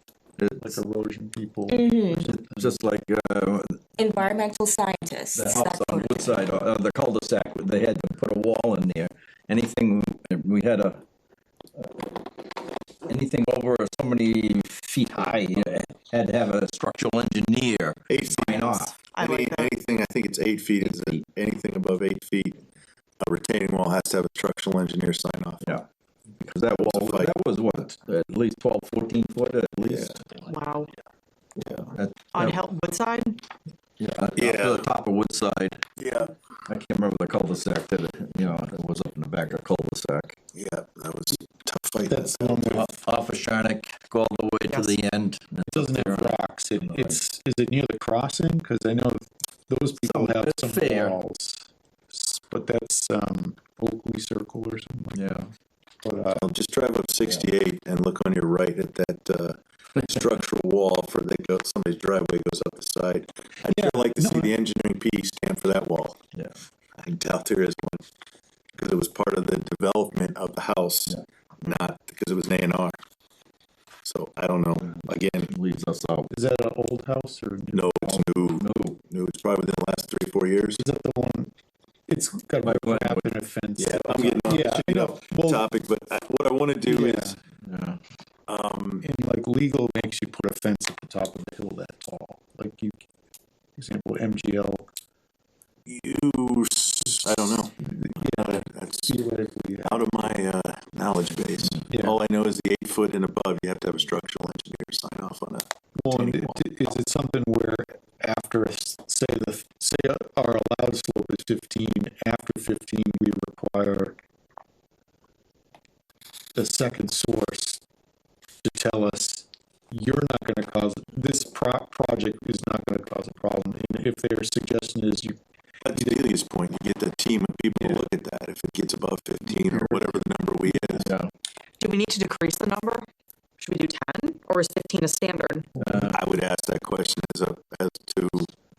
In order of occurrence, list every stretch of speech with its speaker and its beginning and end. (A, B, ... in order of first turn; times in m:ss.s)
0:00.4-0:00.8 A
0:00.6-0:02.7 B
0:01.7-0:02.3 C
0:02.2-0:03.8 A
0:04.0-0:06.4 C
0:05.4-0:11.0 A
0:11.8-0:19.0 A
0:18.1-0:22.6 D
0:19.0-0:19.8 E
0:20.9-0:21.2 A
0:23.2-0:25.6 D
0:26.4-0:30.5 A
0:26.8-0:27.3 D
0:30.5-0:30.9 E
0:31.6-0:31.9 D
0:31.9-0:32.6 A
0:32.3-0:33.4 E
0:34.0-0:35.8 A
0:34.4-0:34.8 D
0:36.0-0:36.3 D
0:36.7-0:40.4 A
0:40.6-0:42.7 D
0:42.1-0:42.9 B
0:42.7-0:47.2 A
0:45.7-0:55.2 B
0:50.0-0:51.2 A
0:55.1-0:55.5 A
0:56.0-0:56.5 B
0:56.4-1:06.2 D
1:03.7-1:04.5 B
1:07.0-1:08.0 D
1:08.8-1:13.0 D
1:14.0-1:15.5 D
1:15.5-1:16.3 A
1:16.3-1:18.2 B
1:17.7-1:20.8 D
1:18.6-1:19.0 A
1:20.8-1:21.5 B
1:22.1-1:25.7 B
1:22.6-1:23.3 A
1:23.8-1:27.4 D
1:26.8-1:27.4 B
1:27.6-1:28.0 A
1:28.5-1:29.0 D
1:29.0-1:33.0 B
1:33.8-1:34.9 B
1:35.9-1:39.1 D
1:37.8-1:40.0 B
1:39.8-1:46.8 D
1:41.9-1:42.2 B
1:46.0-1:54.2 B
1:56.6-1:57.8 B
1:58.6-2:05.4 B
2:05.8-2:11.1 D
2:11.0-2:11.3 A
2:11.8-2:13.1 E
2:13.6-2:15.7 E
2:15.8-2:16.2 A
2:15.8-2:16.1 B
2:16.1-2:18.5 D